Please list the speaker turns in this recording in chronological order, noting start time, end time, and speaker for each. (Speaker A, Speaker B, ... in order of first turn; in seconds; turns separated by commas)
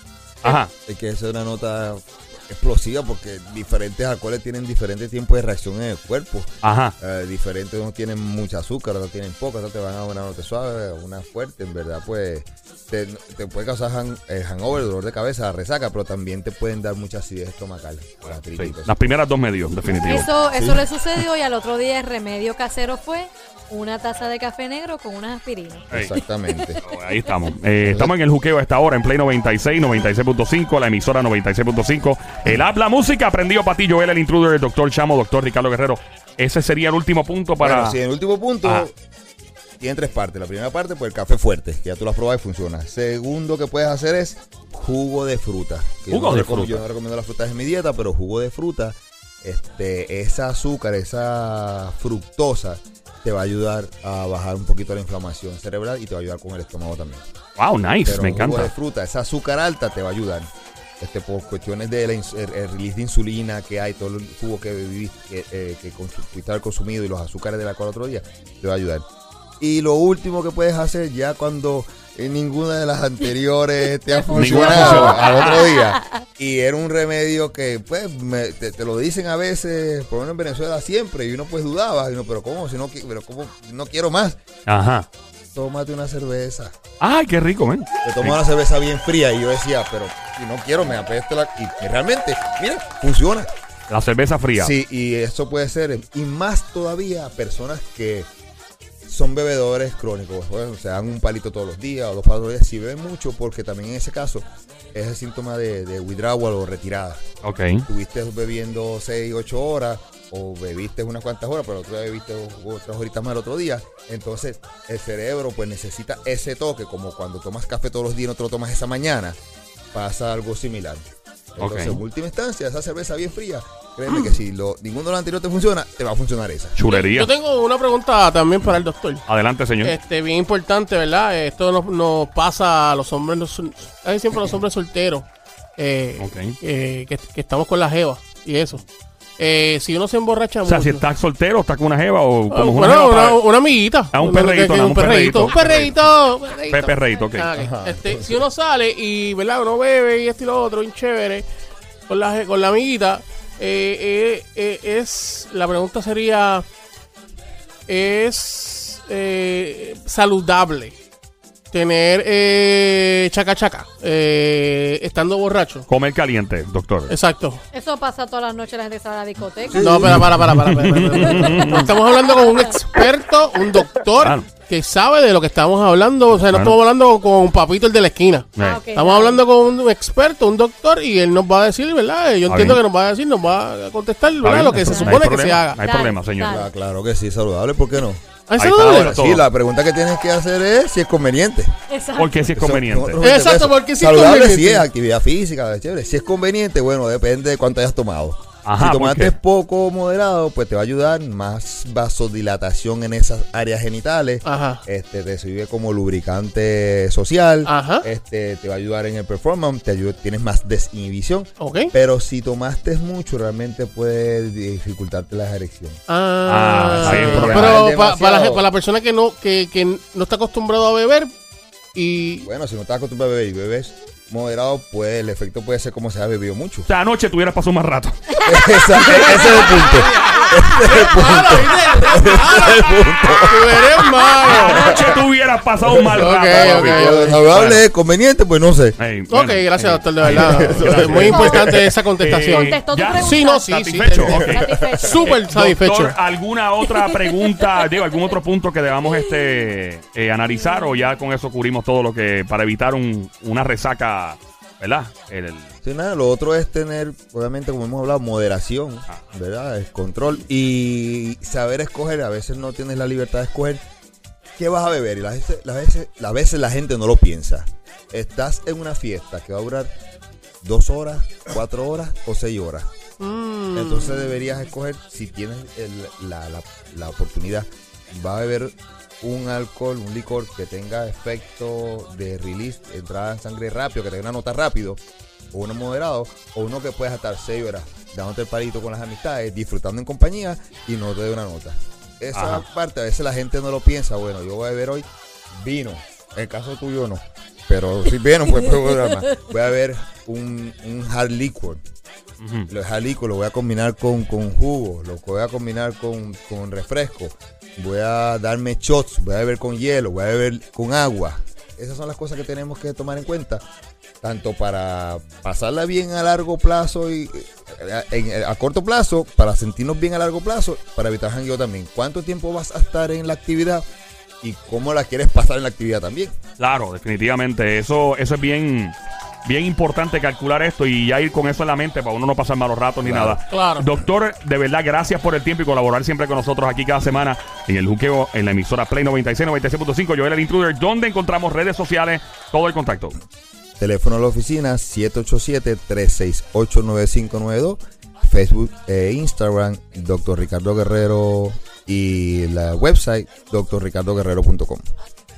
Speaker A: 0.4-0.7, Speaker B: 0.9-18.9, Speaker A: 6.6-6.9, Speaker A: 18.2-20.3, Speaker C: 20.0-26.8, Speaker B: 20.5-20.9, Speaker B: 25.9-26.8, Speaker A: 26.8-38.0, Speaker B: 27.8-28.1, Speaker B: 37.6-38.9, Speaker B: 39.8-57.2, Speaker A: 46.1-46.8, Speaker A: 57.6-58.7, Speaker B: 58.0-60.5, Speaker B: 61.0-69.0, Speaker B: 69.6-84.4, Speaker A: 74.3-75.7, Speaker C: 74.4-76.0, Speaker A: 84.7-85.0, Speaker B: 85.5-86.7, Speaker A: 87.0-88.4, Speaker B: 88.0-93.5, Speaker A: 93.9-94.7, Speaker B: 94.5-98.3, Speaker B: 99.1-107.2, Speaker A: 107.4-107.8, Speaker B: 107.8-119.4, Speaker B: 119.9-126.7, Speaker A: 121.6-122.0, Speaker A: 126.7-127.3, Speaker D: 126.9-129.2, Speaker A: 129.3-129.9, Speaker D: 129.8-135.3, Speaker D: 135.8-138.8, Speaker A: 136.2-136.5, Speaker D: 139.4-141.0, Speaker A: 140.6-143.4, Speaker D: 142.5-151.4, Speaker A: 144.1-146.0, Speaker A: 146.7-147.5, Speaker B: 147.6-148.4, Speaker D: 152.1-156.6, Speaker D: 157.9-160.9, Speaker D: 161.7-165.8, Speaker A: 165.9-167.1, Speaker D: 167.1-167.6, Speaker C: 167.7-169.9, Speaker D: 169.8-185.8, Speaker A: 170.0-171.9, Speaker C: 171.2-172.7, Speaker A: 174.2-174.4, Speaker A: 176.5-176.8, Speaker A: 178.6-178.8, Speaker C: 178.6-179.4, Speaker A: 182.5-182.8, Speaker A: 184.4-186.5, Speaker C: 184.8-185.2, Speaker C: 185.8-186.7, Speaker B: 186.4-191.7, Speaker D: 188.5-189.1, Speaker A: 188.6-189.4, Speaker C: 191.9-192.4, Speaker A: 192.2-193.2, Speaker B: 192.6-216.0, Speaker D: 193.2-194.8, Speaker A: 198.6-199.3, Speaker D: 204.4-204.8, Speaker D: 207.7-208.1, Speaker D: 211.6-211.9, Speaker D: 216.1-221.3, Speaker A: 216.4-217.8, Speaker B: 217.0-218.6, Speaker D: 221.9-222.5, Speaker B: 222.4-226.9, Speaker A: 226.9-228.3, Speaker B: 228.4-235.2, Speaker D: 228.9-235.1, Speaker A: 234.4-237.8, Speaker B: 235.9-239.0, Speaker D: 236.0-237.5, Speaker A: 239.0-241.6, Speaker D: 239.3-244.4, Speaker B: 240.3-241.9, Speaker C: 241.3-241.7, Speaker A: 242.2-255.7, Speaker C: 242.5-245.3, Speaker B: 244.3-245.1, Speaker D: 244.9-246.2, Speaker C: 246.9-247.2, Speaker C: 250.6-251.0, Speaker B: 255.8-263.8, Speaker B: 264.6-269.9, Speaker B: 270.6-272.9, Speaker D: 273.2-274.3, Speaker B: 273.7-285.0, Speaker B: 285.5-301.8, Speaker A: 292.3-292.6, Speaker A: 302.4-302.7, Speaker B: 302.7-313.6, Speaker B: 314.2-323.8, Speaker B: 324.4-326.3, Speaker A: 326.6-343.1, Speaker B: 333.0-333.4, Speaker D: 333.5-333.9, Speaker B: 343.8-354.8